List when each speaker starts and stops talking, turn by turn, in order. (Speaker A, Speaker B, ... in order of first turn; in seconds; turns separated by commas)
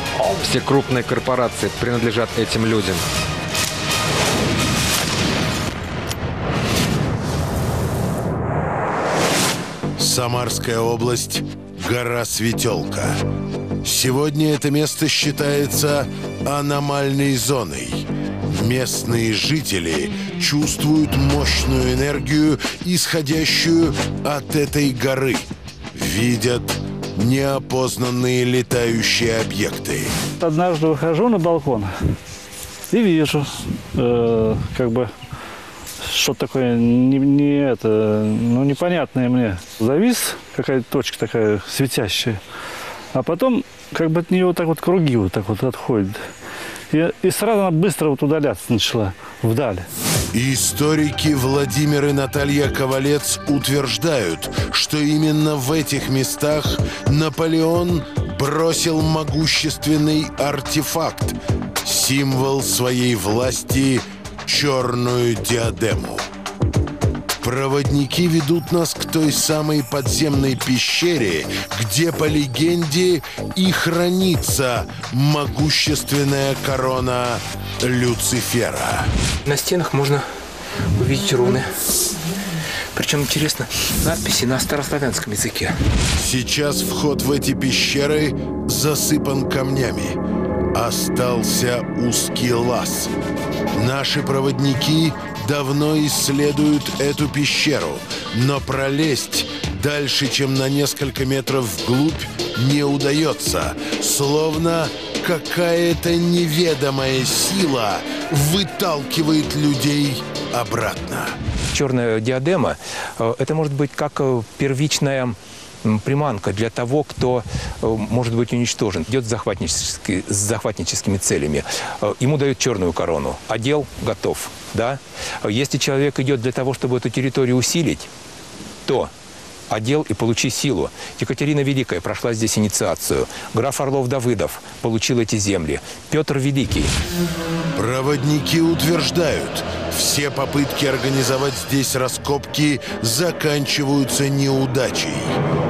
Speaker A: 0.4-3.0, Speaker B: 10.0-13.2, Speaker B: 13.8-30.1, Speaker C: 30.4-31.9, Speaker C: 32.9-35.1, Speaker C: 36.0-42.4, Speaker C: 43.1-46.2, Speaker C: 46.9-49.9, Speaker B: 50.3-66.2, Speaker B: 67.4-79.1, Speaker D: 79.5-80.3, Speaker D: 81.0-81.7, Speaker D: 83.0-85.8, Speaker B: 86.2-90.2, Speaker B: 90.7-93.1, Speaker B: 93.7-111.4, Speaker D: 111.7-128.1, Speaker D: 128.9-129.1, Speaker D: 129.7-136.9, Speaker B: 137.8-145.4